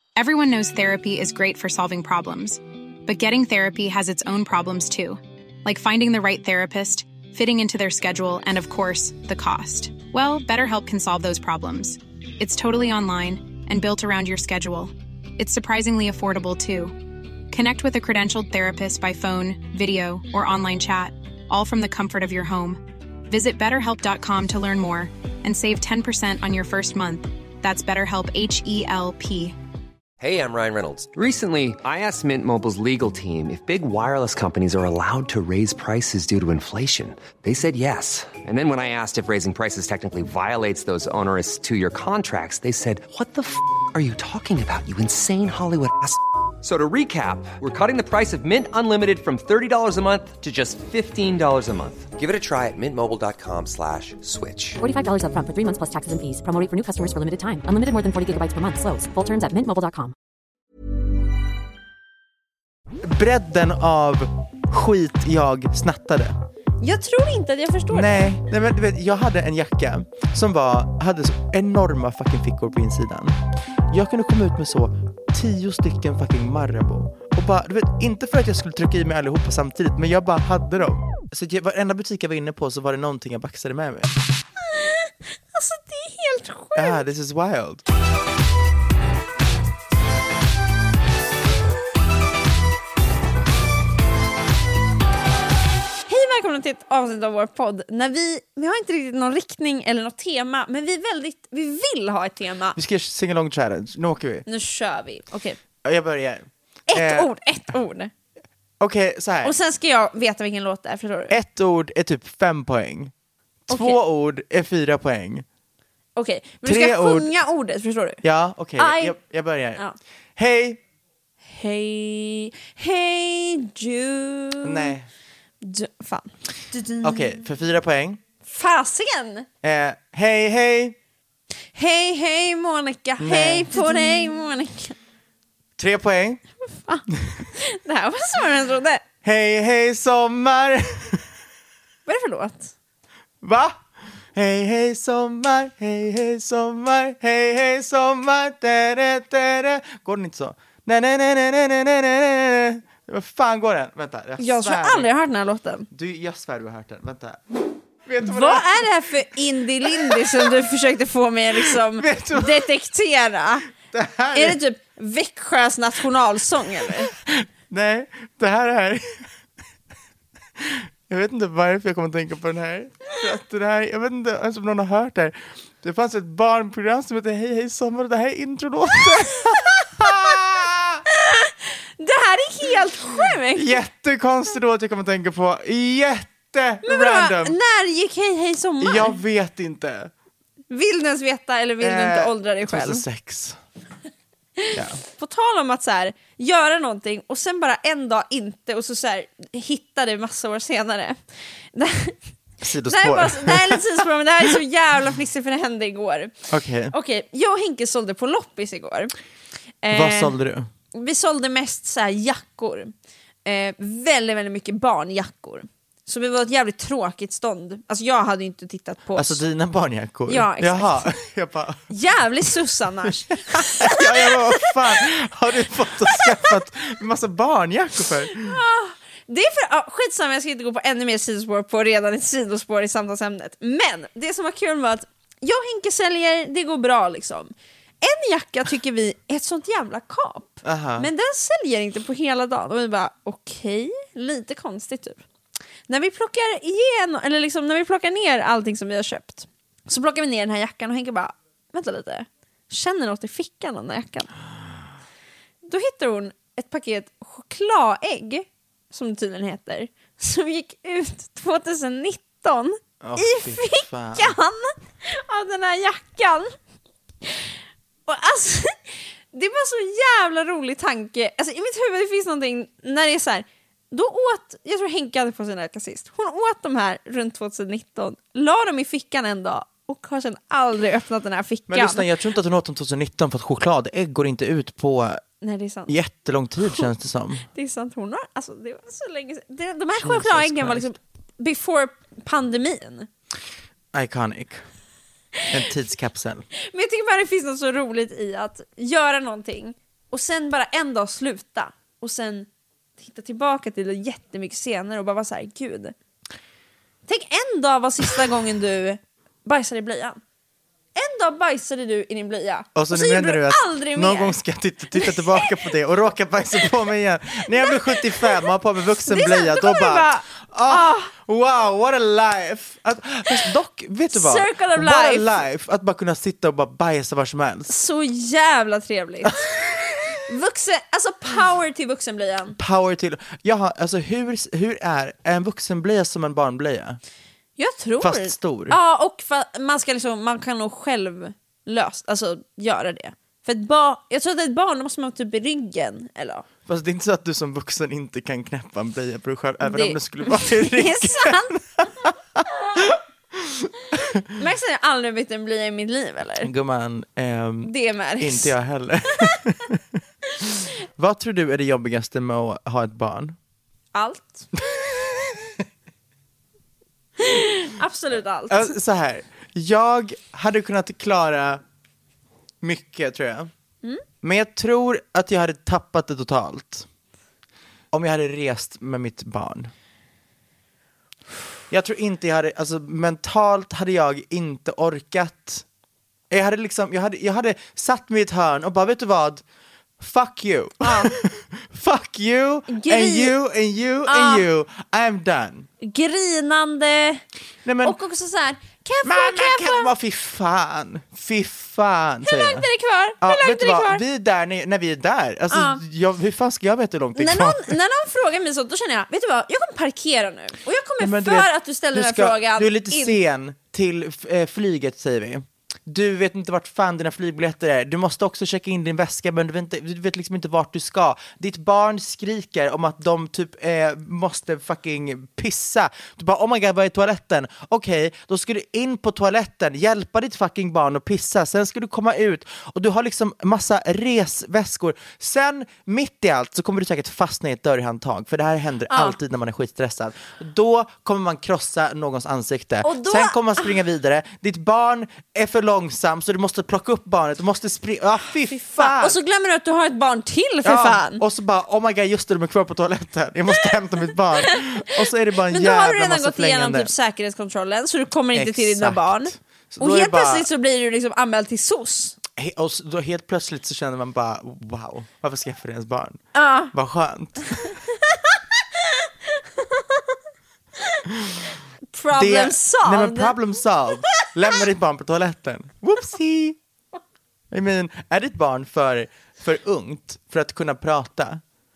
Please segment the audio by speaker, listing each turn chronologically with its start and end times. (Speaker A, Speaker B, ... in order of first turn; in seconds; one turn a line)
Speaker A: 0.2-29.6
Speaker B: 30.2-54.8
Speaker C: 54.8-60.1
Speaker D: 63.0-66.4
Speaker E: 66.8-68.3
Speaker D: 67.9-73.4
Speaker D: 73.9-84.2
Speaker E: 84.6-87.0
Speaker D: 86.8-87.8
Speaker E: 96.1-102.8
Speaker D: 102.8-104.5
Speaker E: 104.5-105.6
Speaker D: 105.8-107.3
Speaker E: 106.9-108.1
Speaker D: 108.8-109.5
Speaker E: 109.4-111.4
Speaker D: 111.3-113.1
Speaker D: 113.7-115.5
Speaker E: 113.7-114.0
Speaker E: 116.2-118.2
Speaker D: 116.6-117.3
Speaker D: 118.2-119.8
Speaker E: 118.8-119.2
Speaker D: 120.4-120.8
Speaker E: 121.4-125.0
Speaker D: 124.6-125.1
Speaker E: 125.6-126.3
Speaker D: 127.0-128.2
Speaker E: 128.4-129.5
Speaker D: 129.6-131.0
Speaker E: 131.7-134.9
Speaker D: 133.2-134.1
Speaker D: 135.8-136.4
Speaker E: 136.8-139.0
Speaker D: 139.2-141.2
Speaker E: 142.1-142.7
Speaker D: 143.4-143.8
Speaker D: 144.3-155.1
Speaker E: 154.4-155.9
Speaker D: 155.9-157.4
Speaker D: 158.1-158.9
Speaker E: 158.2-163.7
Speaker D: 159.8-160.5
Speaker D: 161.6-162.7
Speaker D: 163.9-164.6
Speaker E: 164.3-167.1
Speaker D: 167.0-169.3
Speaker D: 170.6-181.0
Speaker E: 181.1-183.8
Speaker D: 183.6-187.6
Speaker E: 186.8-189.2
Speaker D: 188.8-190.1
Speaker E: 190.7-193.0
Speaker D: 191.8-193.6
Speaker E: 194.6-201.2
Speaker D: 194.7-195.0
Speaker E: 201.7-202.2
Speaker D: 202.6-203.8
Speaker E: 202.9-206.3
Speaker D: 206.5-206.9
Speaker E: 206.9-209.1
Speaker E: 209.8-210.4
Speaker D: 209.9-210.7
Speaker E: 210.9-212.9
Speaker E: 213.4-219.4
Speaker D: 219.2-221.8
Speaker E: 220.3-221.1
Speaker E: 221.9-225.0
Speaker D: 223.5-228.6
Speaker E: 226.0-226.5
Speaker E: 228.3-245.2
Speaker D: 240.6-241.1
Speaker E: 245.9-254.3
Speaker E: 255.7-266.6
Speaker D: 263.0-264.4
Speaker E: 268.1-282.1
Speaker D: 281.7-285.2
Speaker E: 285.4-286.0
Speaker D: 285.9-287.5
Speaker E: 287.5-293.1
Speaker D: 289.9-290.9
Speaker D: 293.9-294.6
Speaker D: 295.5-296.5
Speaker E: 296.7-305.9
Speaker E: 307.1-310.2
Speaker E: 310.9-314.4
Speaker D: 312.8-327.7
Speaker E: 314.9-315.7
Speaker E: 317.5-318.5
Speaker E: 319.1-321.1
Speaker E: 324.1-325.4
Speaker E: 327.7-329.5
Speaker E: 330.3-332.6
Speaker D: 332.6-337.0
Speaker E: 337.6-346.5
Speaker D: 338.0-338.8
Speaker D: 346.7-354.2
Speaker E: 349.6-351.6
Speaker E: 354.4-356.5
Speaker D: 356.4-360.0
Speaker E: 357.6-358.6
Speaker D: 361.0-363.4
Speaker E: 363.9-364.5
Speaker E: 367.2-368.8
Speaker D: 368.5-371.6
Speaker D: 372.6-373.5
Speaker D: 374.2-376.9
Speaker D: 377.9-379.7
Speaker D: 381.7-385.6
Speaker D: 386.3-389.4
Speaker D: 390.0-395.7
Speaker E: 390.8-391.1
Speaker E: 392.7-393.4
Speaker E: 394.1-394.5
Speaker E: 395.8-397.2
Speaker D: 397.6-398.0
Speaker E: 397.8-399.9
Speaker D: 399.0-402.7
Speaker E: 402.2-404.0
Speaker D: 403.2-407.8
Speaker E: 405.5-405.8
Speaker E: 407.2-413.2
Speaker D: 411.0-449.2
Speaker E: 438.9-439.2
Speaker E: 442.8-443.8
Speaker E: 448.5-451.2
Speaker D: 450.6-456.9
Speaker E: 454.4-462.2
Speaker D: 458.3-460.5
Speaker D: 462.4-467.8
Speaker E: 466.3-466.7
Speaker E: 468.8-470.0
Speaker E: 471.9-473.4
Speaker D: 472.1-476.6
Speaker D: 477.5-481.4